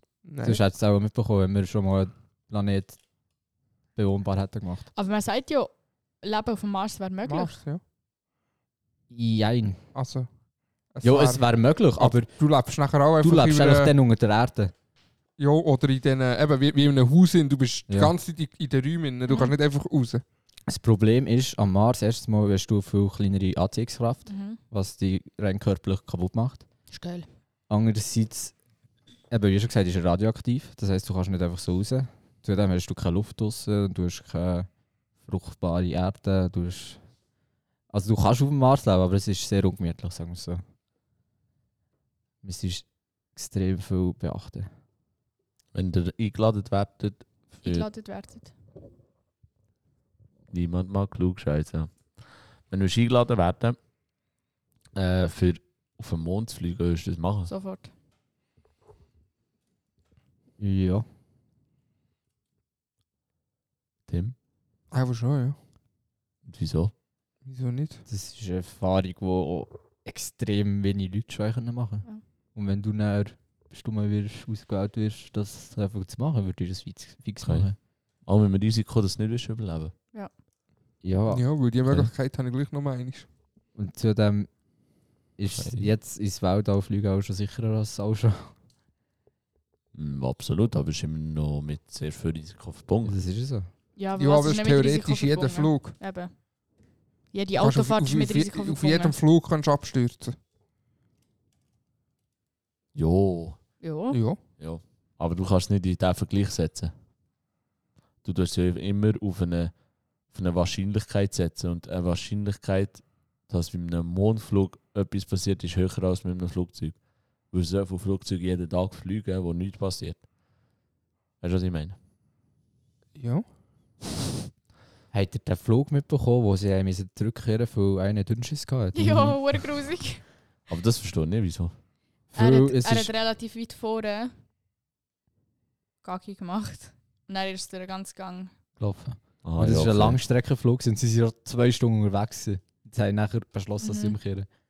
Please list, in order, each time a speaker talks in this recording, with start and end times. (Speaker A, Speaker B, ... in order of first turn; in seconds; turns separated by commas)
Speaker A: 0.2-0.6, Speaker B: 0.4-3.0, Speaker B: 4.0-4.9, Speaker C: 4.9-7.5, Speaker A: 7.2-7.8, Speaker B: 9.1-9.8, Speaker A: 9.9-10.3, Speaker A: 10.9-11.4, Speaker B: 11.0-12.3, Speaker A: 12.0-13.9, Speaker B: 13.2-14.7, Speaker A: 15.4-20.2, Speaker C: 19.3-19.6, Speaker B: 20.7-26.6, Speaker C: 24.2-24.6, Speaker C: 26.9-27.3, Speaker B: 27.7-28.5, Speaker B: 29.3-34.7, Speaker B: 35.2-37.0, Speaker B: 37.9-40.6, Speaker B: 42.4-44.7, Speaker D: 45.7-47.9, Speaker C: 47.6-48.5, Speaker D: 50.5-52.0, Speaker D: 52.7-53.8, Speaker D: 55.0-57.5, Speaker C: 57.5-57.9, Speaker B: 60.6-61.0, Speaker D: 64.1-64.3, Speaker A: 64.9-65.6, Speaker D: 66.4-66.9, Speaker A: 67.5-68.0, Speaker B: 68.1-77.8, Speaker D: 77.4-77.7, Speaker D: 78.2-79.9, Speaker B: 81.0-81.4, Speaker A: 81.3-83.2, Speaker D: 81.8-82.1, Speaker B: 83.7-84.5, Speaker B: 85.4-88.5, Speaker D: 85.5-85.9, Speaker D: 89.9-93.2, Speaker B: 93.0-93.7, Speaker C: 94.0-96.3, Speaker A: 94.2-96.0, Speaker C: 97.3-99.2, Speaker A: 97.6-100.3, Speaker D: 102.9-103.6, Speaker C: 103.8-104.2, Speaker A: 104.1-104.4, Speaker D: 104.6-106.9, Speaker D: 108.2-109.7, Speaker D: 110.3-117.0, Speaker D: 117.5-120.2, Speaker D: 121.4-122.0, Speaker A: 123.2-123.5, Speaker B: 125.1-129.4, Speaker C: 128.9-130.2, Speaker D: 130.7-131.7, Speaker B: 132.3-133.1, Speaker C: 132.3-134.3, Speaker C: 136.0-138.5, Speaker B: 138.8-144.5, Speaker D: 139.4-140.2, Speaker C: 143.8-144.2